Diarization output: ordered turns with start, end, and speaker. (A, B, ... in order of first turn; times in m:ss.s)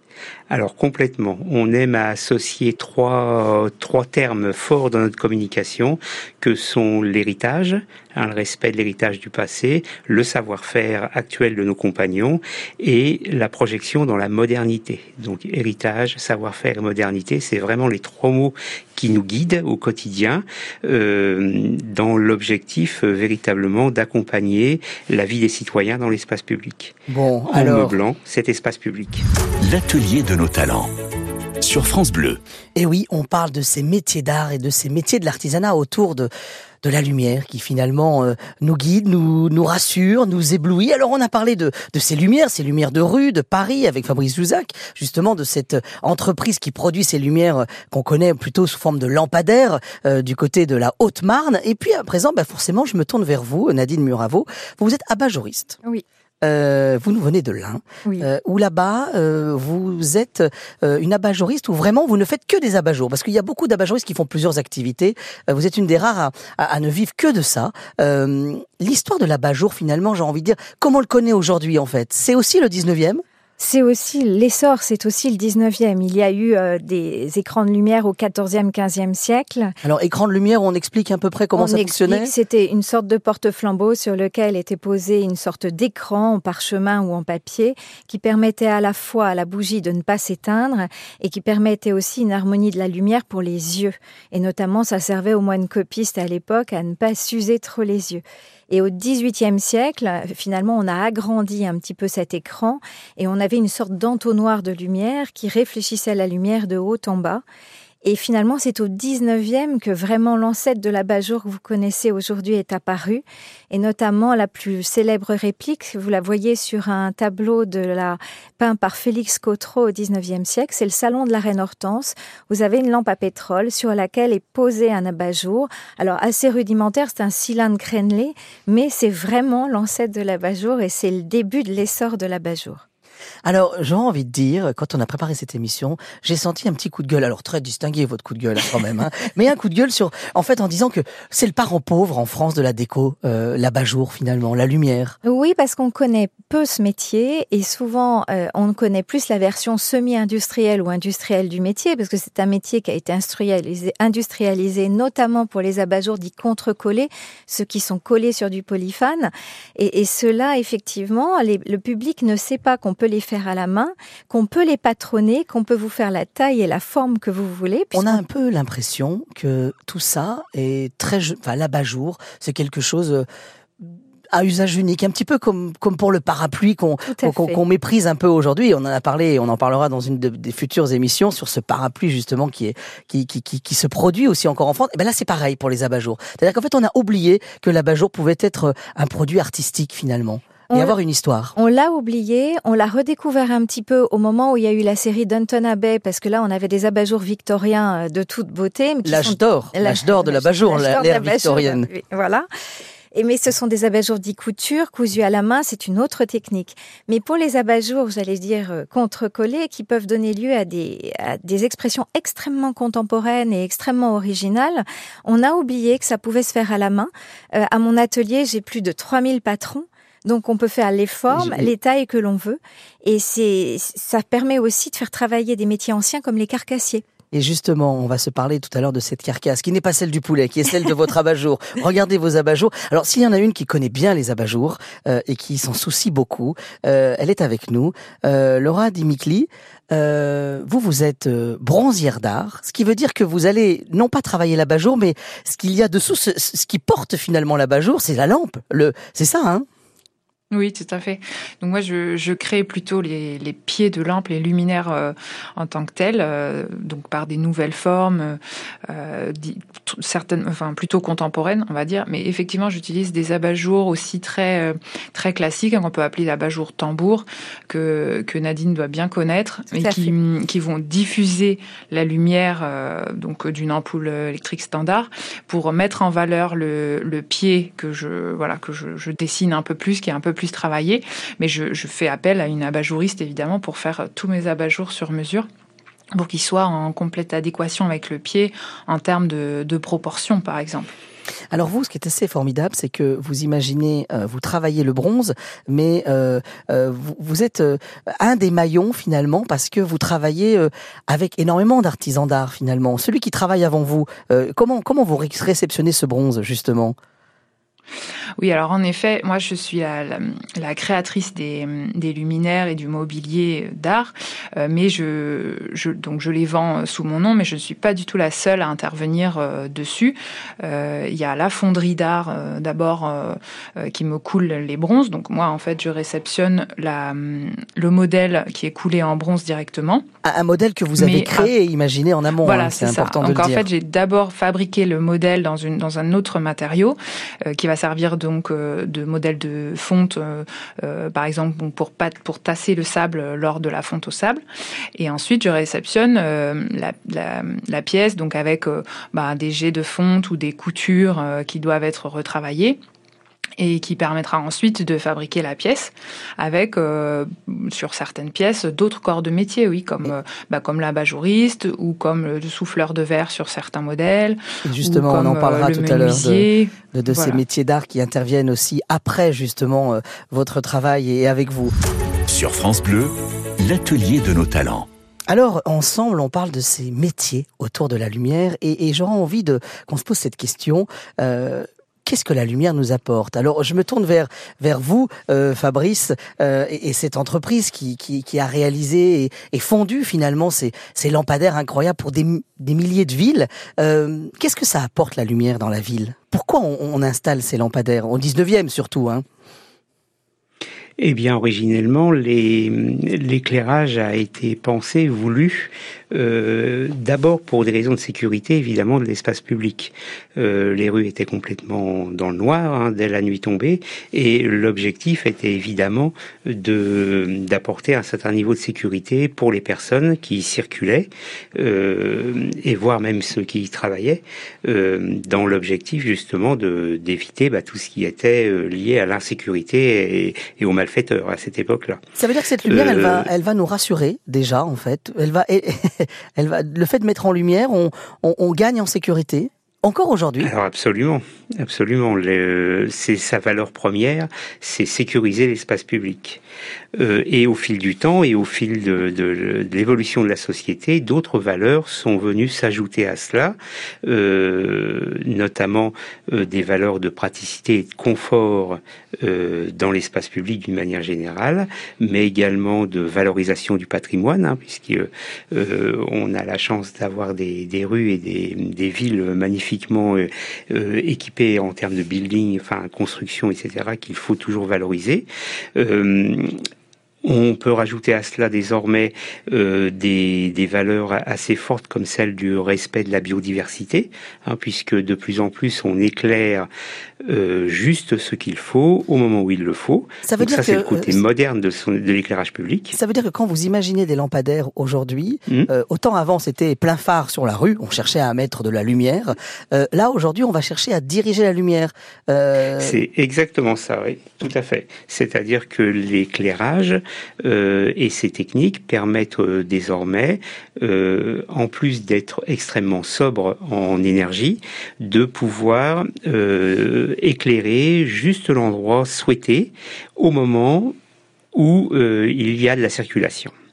0:00.5-0:27.0 A
0:27.1-0:28.0 B
0:27.5-0:29.2 A
0:29.6-0:30.9 C
0:31.6-0:32.4 C
0:32.7-0:36.3 B
0:36.8-0:55.8 B
0:56.4-1:13.2 B
1:13.6-1:19.8 D
1:19.8-1:22.3 B
1:21.6-1:47.4 D
1:48.0-2:12.8 D
2:13.4-2:25.2 B
2:25.2-2:48.2 D
2:47.9-2:53.2 B
2:53.8-3:11.5 B
2:57.1-2:57.6 D
3:10.7-3:10.9 D
3:11.6-3:22.4 D
3:19.0-3:21.9 B
3:23.1-3:47.0 D
3:41.3-3:41.7 B
3:47.3-4:09.6 B
4:10.5-4:45.5 E
4:29.7-4:30.1 D
4:46.1-4:50.9 E
4:51.5-5:07.0 B
5:08.4-5:30.0 E
5:30.2-5:33.6 B
5:31.0-5:31.5 E
5:32.4-5:44.4 E
5:45.0-5:52.8 E
5:53.6-6:07.4 E
6:04.6-6:11.7 B
6:12.3-6:14.9 C
6:15.3-6:39.2 B
6:41.0-7:12.0 A
7:12.2-7:20.5 B
7:12.6-7:13.3 A
7:20.4-7:26.4 A
7:26.9-7:56.6 A
7:57.2-8:06.7 A
8:07.2-8:12.9 A
8:10.2-8:11.2 B
8:12.9-8:23.0 B
8:22.8-8:40.9 A
8:41.5-8:43.5 A